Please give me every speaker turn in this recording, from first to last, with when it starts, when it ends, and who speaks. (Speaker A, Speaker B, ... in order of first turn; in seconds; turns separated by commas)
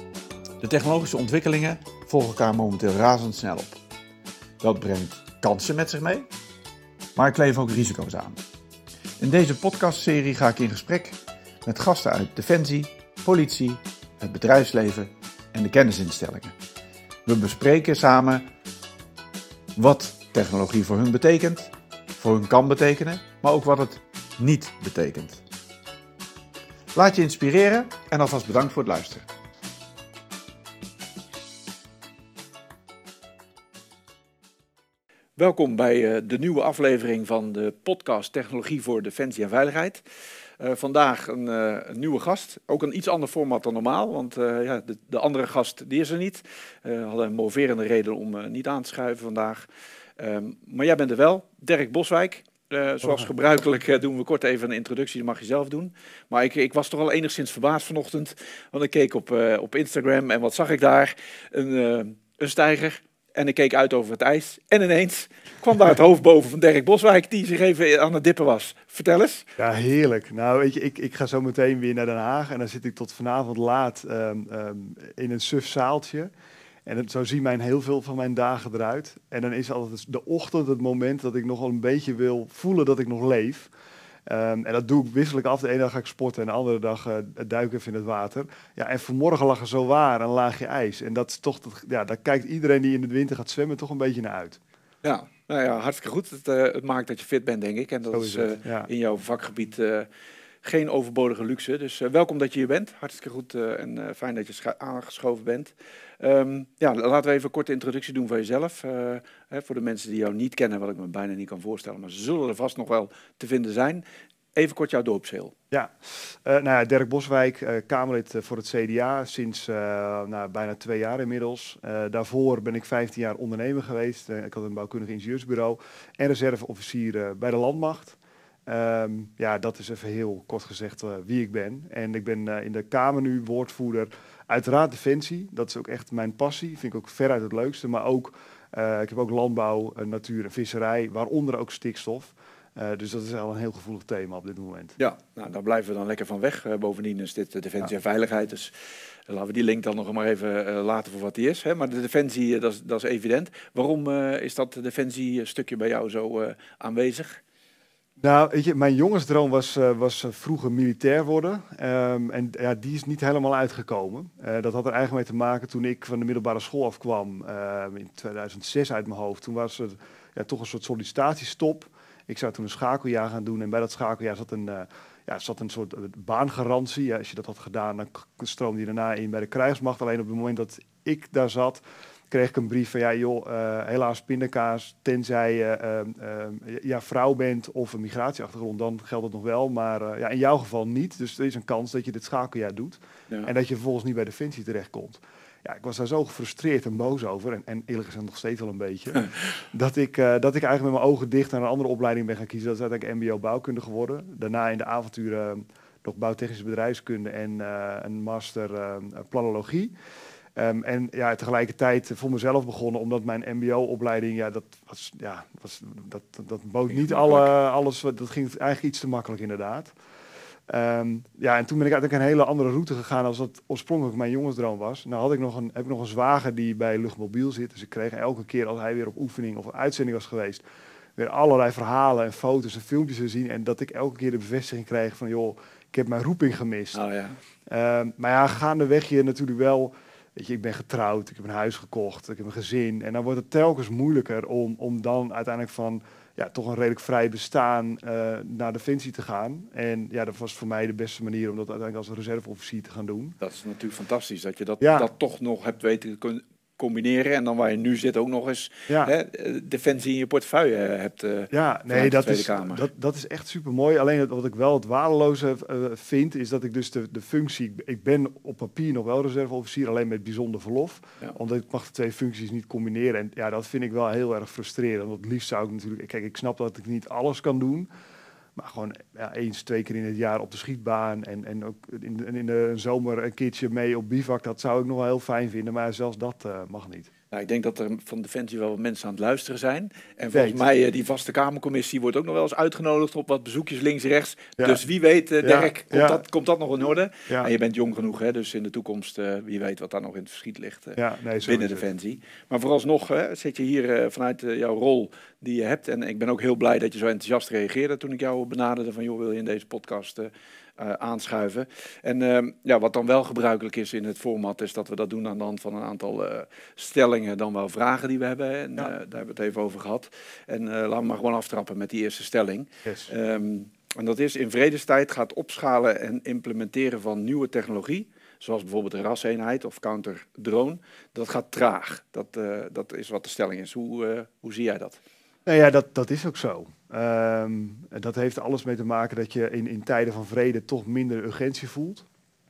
Speaker A: 0.6-3.8, Speaker A: 4.6-6.3, Speaker A: 7.2-8.4, Speaker A: 9.2-16.5, Speaker A: 17.2-18.4, Speaker A: 19.8-25.4, Speaker A: 26.9-29.3, Speaker A: 35.4-40.0, Speaker A: 40.6-49.7, Speaker A: 50.2-69.5, Speaker B: 69.6-76.3, Speaker B: 76.8-83.7, Speaker B: 84.3-94.6, Speaker A: 95.0-100.1, Speaker B: 98.1-98.9, Speaker A: 100.6-114.0, Speaker A: 114.5-115.5, Speaker B: 115.7-144.9, Speaker A: 145.0-148.7, Speaker A: 149.3-157.4, Speaker B: 158.2-209.9, Speaker B: 210.6-219.9, Speaker A: 216.9-217.5, Speaker B: 220.7-230.6, Speaker B: 231.2-237.0, Speaker A: 236.9-237.4, Speaker B: 237.7-253.3, Speaker A: 253.4-262.9, Speaker B: 254.8-255.1, Speaker B: 261.5-277.9, Speaker B: 278.6-287.1, Speaker A: 287.3-335.0, Speaker B: 290.3-290.6, Speaker B: 295.4-296.2, Speaker B: 301.0-301.9, Speaker B: 322.8-323.1, Speaker B: 335.4-342.0